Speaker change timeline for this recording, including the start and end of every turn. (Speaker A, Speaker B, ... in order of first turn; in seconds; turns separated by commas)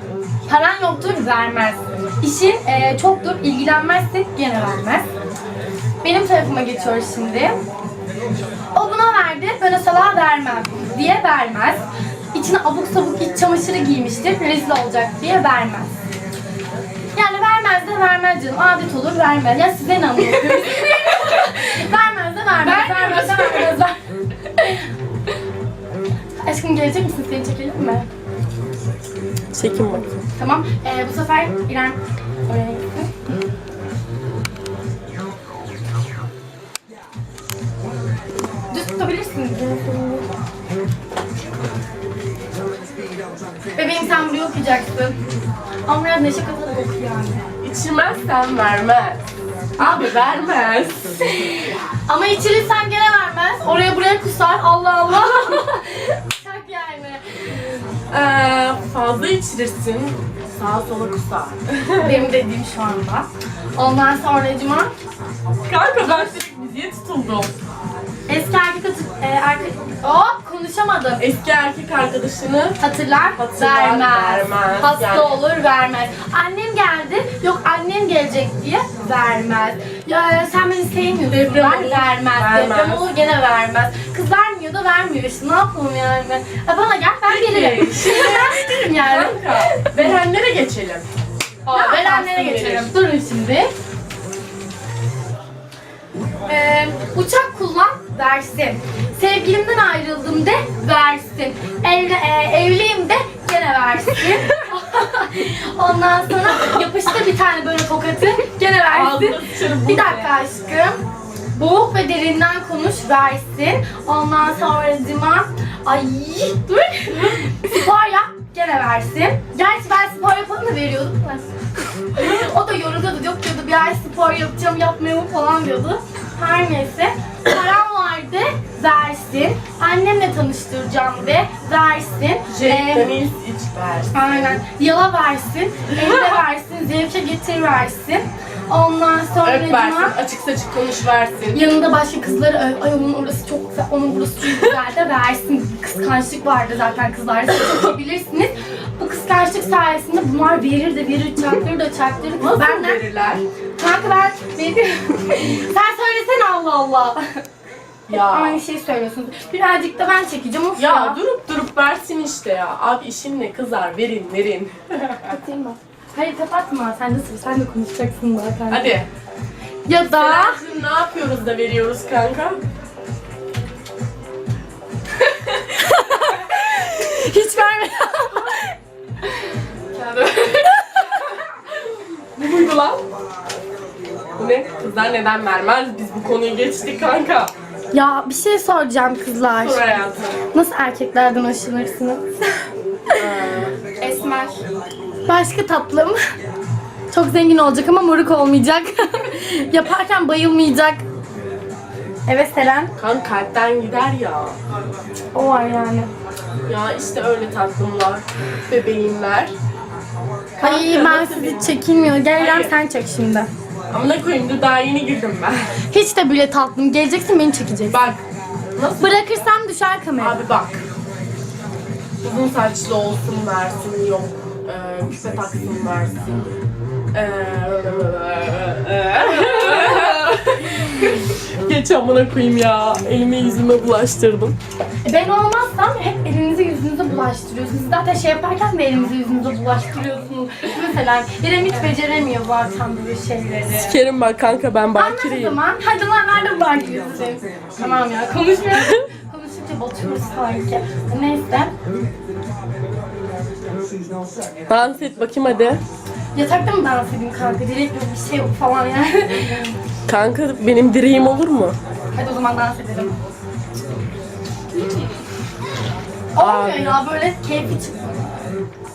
Speaker A: 0.5-5.0, Speaker A: 6.0-7.6, Speaker A: 8.7-11.8, Speaker A: 12.3-15.9, Speaker A: 17.1-24.9, Speaker B: 20.5-20.9, Speaker B: 22.6-23.8, Speaker A: 26.4-28.1, Speaker B: 29.5-30.1, Speaker A: 30.4-33.3, Speaker A: 38.7-40.2, Speaker A: 43.8-45.2, Speaker A: 45.9-47.4, Speaker B: 47.6-49.2, Speaker B: 49.8-51.1, Speaker A: 49.8-50.1, Speaker A: 51.4-57.7, Speaker B: 58.1-62.3, Speaker A: 62.0-64.9, Speaker B: 65.7-67.6, Speaker A: 66.0-66.3, Speaker A: 68.3-71.2, Speaker B: 71.2-72.8, Speaker A: 72.8-90.1, Speaker B: 73.4-75.3, Speaker B: 81.3-83.0, Speaker B: 87.3-91.1, Speaker B: 91.6-92.9, Speaker A: 91.7-93.7, Speaker A: 96.5-111.0, Speaker B: 108.8-110.3, Speaker A: 111.5-133.1, Speaker B: 132.5-134.1, Speaker A: 134.1-140.2, Speaker B: 135.9-136.4, Speaker B: 139.4-141.6, Speaker A: 141.5-153.0, Speaker B: 144.5-144.8, Speaker B: 152.4-153.4, Speaker A: 153.8-157.2, Speaker B: 158.1-158.6, Speaker A: 158.1-161.2, Speaker B: 160.8-165.3, Speaker A: 165.2-168.9, Speaker B: 168.7-169.1, Speaker A: 169.8-170.6, Speaker B: 170.1-172.6, Speaker A: 175.6-178.7, Speaker B: 179.9-181.3, Speaker B: 182.3-183.0, Speaker B: 184.4-187.5, Speaker A: 187.9-189.9, Speaker B: 189.6-190.4, Speaker A: 190.5-192.6, Speaker B: 193.2-193.7, Speaker A: 194.0-194.6, Speaker A: 195.2-196.2, Speaker A: 197.1-201.0, Speaker A: 202.3-202.9, Speaker B: 203.0-204.6, Speaker A: 205.3-206.1, Speaker B: 206.7-209.5, Speaker B: 210.6-211.7, Speaker A: 210.6-213.5, Speaker B: 212.3-212.7, Speaker B: 213.9-215.7, Speaker A: 215.9-218.0, Speaker B: 217.9-218.2, Speaker B: 218.8-219.4, Speaker A: 219.0-220.4, Speaker B: 220.2-220.8, Speaker B: 222.2-226.3, Speaker B: 227.1-234.6, Speaker A: 229.3-230.2, Speaker A: 235.0-244.0, Speaker B: 243.7-245.6, Speaker A: 244.9-251.7, Speaker B: 254.7-255.8, Speaker A: 256.3-259.7, Speaker B: 260.1-261.8, Speaker A: 262.1-263.1, Speaker A: 266.3-268.4, Speaker B: 266.4-267.0